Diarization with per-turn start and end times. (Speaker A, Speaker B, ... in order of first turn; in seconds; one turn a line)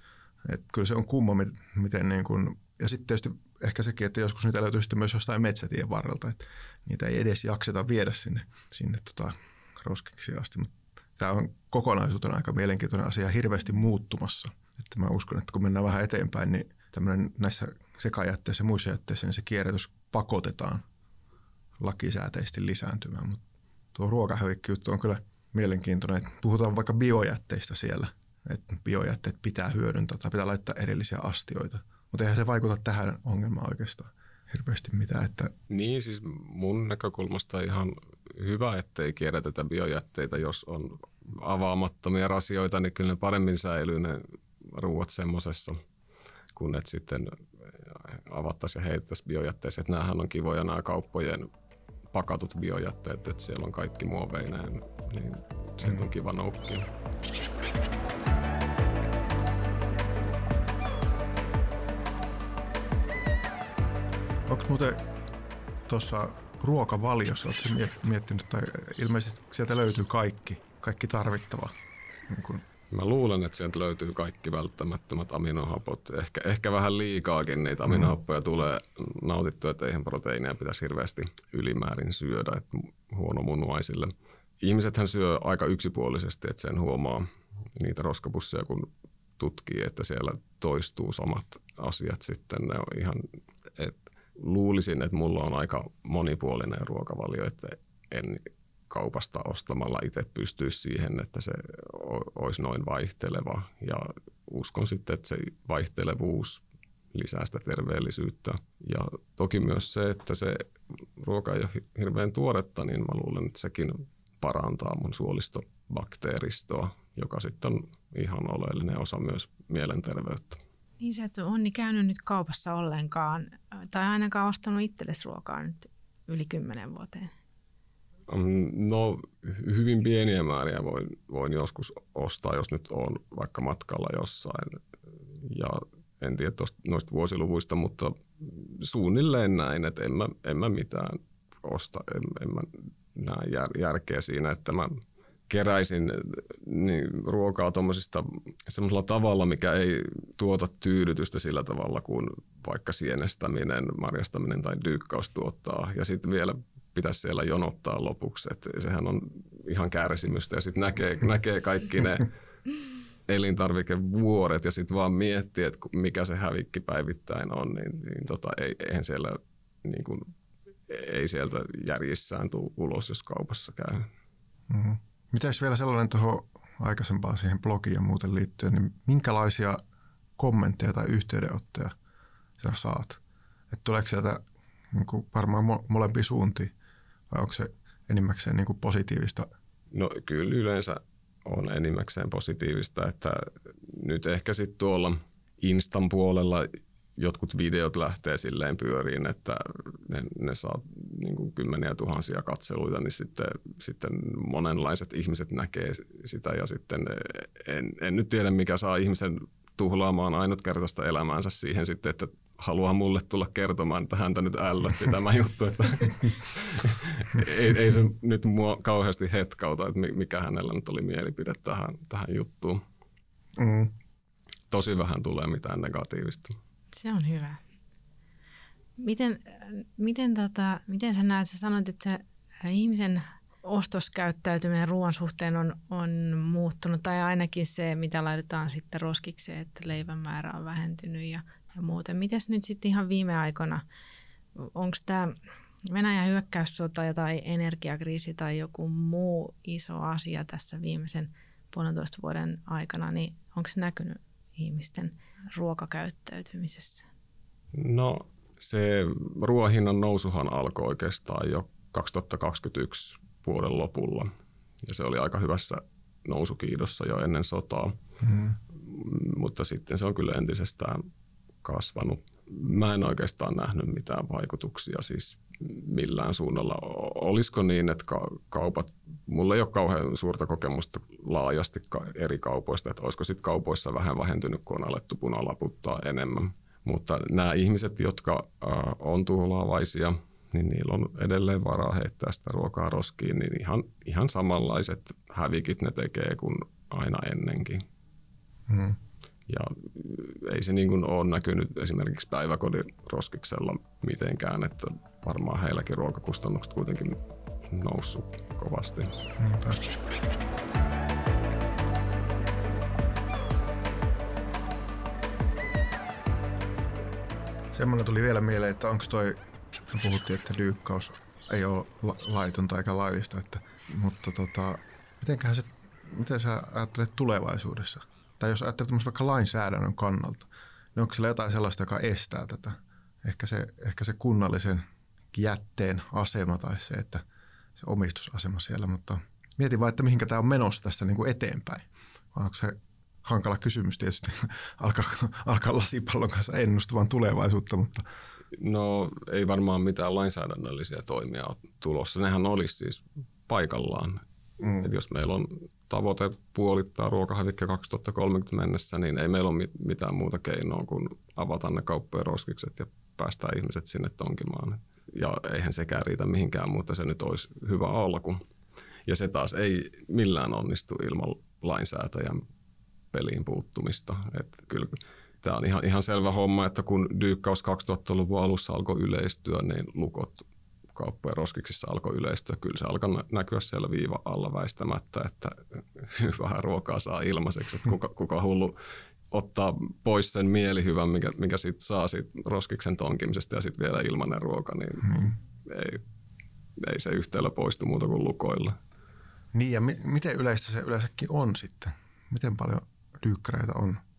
Speaker A: 0.4-20.8
Speaker A: 21.8-23.4
Speaker A: 23.9-35.5
Speaker B: 35.7-45.8
Speaker B: 46.5-51.5
Speaker B: 52.1-56.9
Speaker A: 64.5-65.1
Speaker A: 65.9-71.7
Speaker A: 72.3-72.6
Speaker B: 72.9-88.9
Speaker A: 77.9-78.1
Speaker B: 89.4-110.7
Speaker B: 111.2-120.6
Speaker C: 121.0-127.3
Speaker B: 128.3-134.8
Speaker B: 135.4-162.3
Speaker B: 163.3-170.3
Speaker B: 170.9-174.1
Speaker A: 174.7-179.8
Speaker A: 180.4-181.9
Speaker A: 182.6-186.7
Speaker A: 187.3-189.5
Speaker B: 189.9-222.8
Speaker A: 223.6-223.9
Speaker B: 224.7-226.6
Speaker C: 226.9-227.6
Speaker C: 229.0-243.8
Speaker C: 244.6-257.1
Speaker B: 257.7-264.3
Speaker B: 264.8-268.0
Speaker A: 268.2-268.6
Speaker B: 268.8-271.0
Speaker B: 271.6-297.9
Speaker A: 298.7-299.0
Speaker B: 299.5-309.1
Speaker A: 309.4-309.8
Speaker A: 317.7-319.4
Speaker A: 319.9-337.2
Speaker A: 337.8-348.1
Speaker B: 348.6-354.2
Speaker B: 354.8-368.4
Speaker B: 369.1-372.4
Speaker B: 373.1-388.8
Speaker B: 389.3-396.0
Speaker A: 395.1-395.3
Speaker B: 396.8-398.8
Speaker A: 399.5-404.0